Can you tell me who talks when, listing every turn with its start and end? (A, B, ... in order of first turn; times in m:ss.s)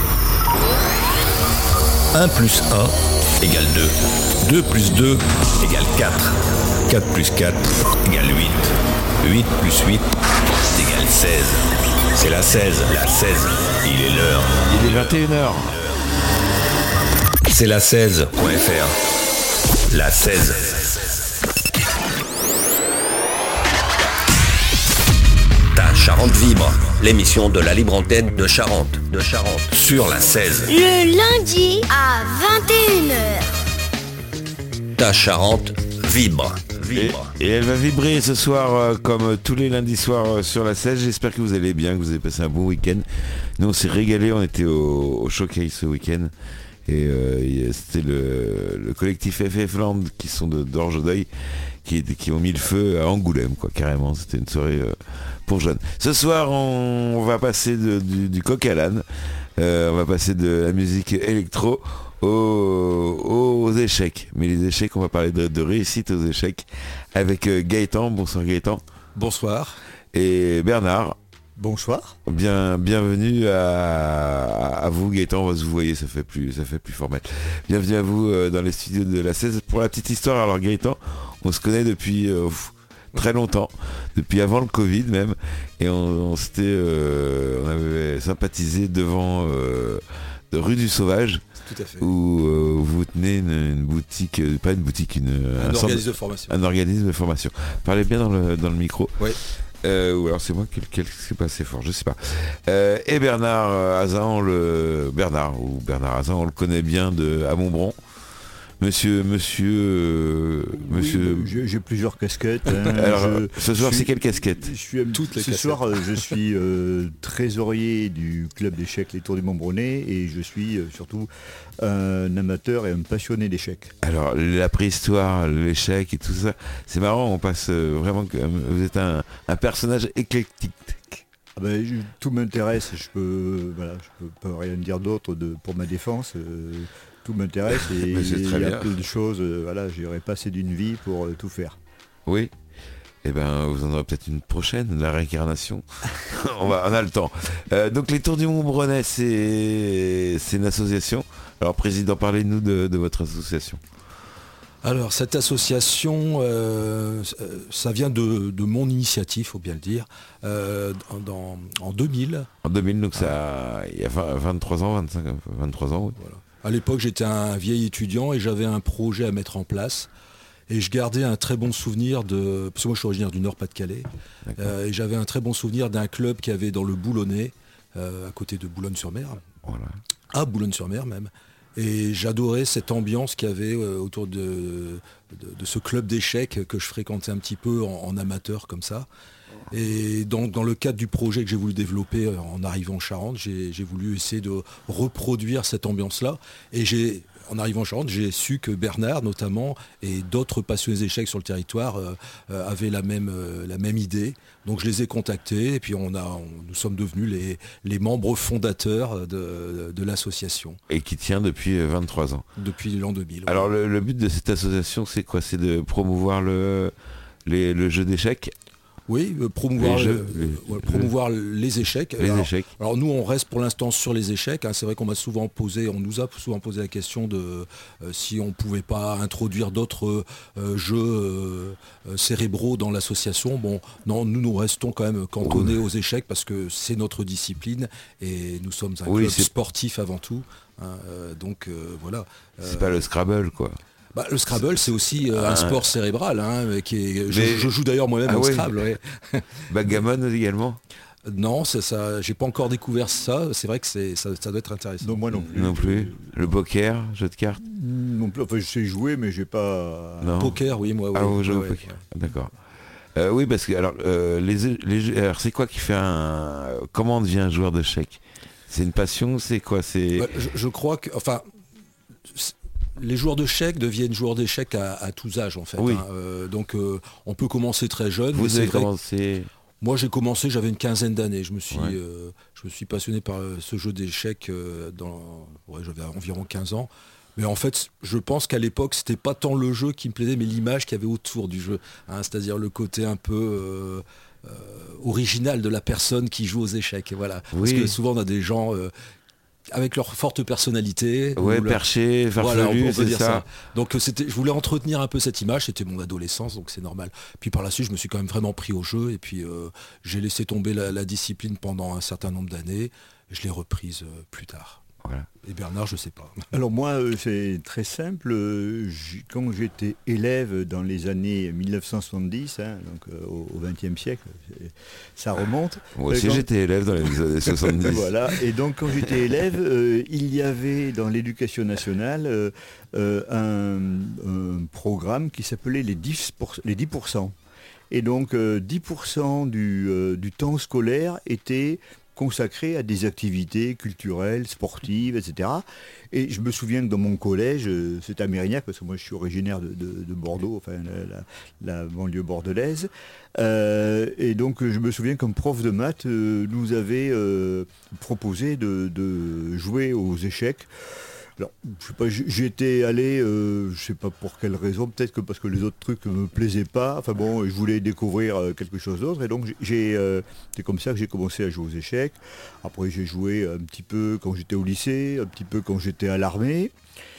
0:02.1-0:10.1 A
0:10.6-0:11.6 A
0:12.2-0:14.6 A
0:14.7-0:15.7 B
0:17.5-0:19.0 A
0:19.9-0:21.1 A
0:25.7-0:30.7 A
0:30.7-0:33.5 C
0:35.0-0:37.3 A
0:36.9-0:43.0 B
0:43.6-0:46.3 B
0:46.9-1:08.8 B
1:09.2-1:09.8 D
1:10.1-1:11.2 B
1:11.6-1:12.2 E
1:12.3-1:31.4 B
1:31.6-1:32.1 D
1:32.0-1:48.0 B
1:35.6-1:36.6 D
1:48.8-1:51.5 B
1:50.7-2:04.0 E
1:52.9-1:54.7 B
1:55.1-1:56.3 D
2:04.0-2:11.2 B
2:11.6-2:21.8 E
2:17.7-2:19.0 B
2:22.3-2:22.5 B
2:23.2-2:33.8 B
2:34.8-2:42.5 D
2:42.6-2:46.2 B
2:46.2-2:50.1 D
2:50.7-2:59.5 D
2:54.5-2:54.7 B
2:59.6-2:59.9 B
3:00.3-3:09.1 D
3:09.7-3:30.8 D
3:30.9-3:32.5 B
3:32.6-3:33.7 D
3:33.5-3:36.9 B
3:37.5-3:38.5 B
3:39.1-4:03.0 D
3:39.8-3:41.1 B
3:42.2-3:42.7 B
3:55.4-3:55.8 B
3:59.1-3:59.5 B
4:02.6-4:03.8 B
4:04.1-4:09.7 D
4:04.5-4:05.9 B
4:07.3-4:07.7 B
4:08.2-4:08.8 B
4:09.7-4:10.8 B
4:11.3-4:15.2 D
4:15.0-4:16.3 E
4:15.5-4:17.6 B
4:17.6-4:20.5 E
4:20.2-4:20.6 B
4:20.4-4:22.0 D
4:21.1-4:22.5 B
4:23.2-4:30.3 B
4:30.2-4:31.5 D
4:32.3-4:38.9 D
4:35.8-4:36.0 B
4:38.3-4:39.5 B
4:39.8-4:58.9 D
4:57.5-4:58.0 B
4:59.7-5:01.8 D
5:01.4-5:03.4 B
5:02.4-5:14.8 D
5:15.4-5:16.5 D
5:16.5-5:26.5 E
5:26.0-5:28.1 B
5:27.4-5:37.4 E
5:37.9-6:16.7 E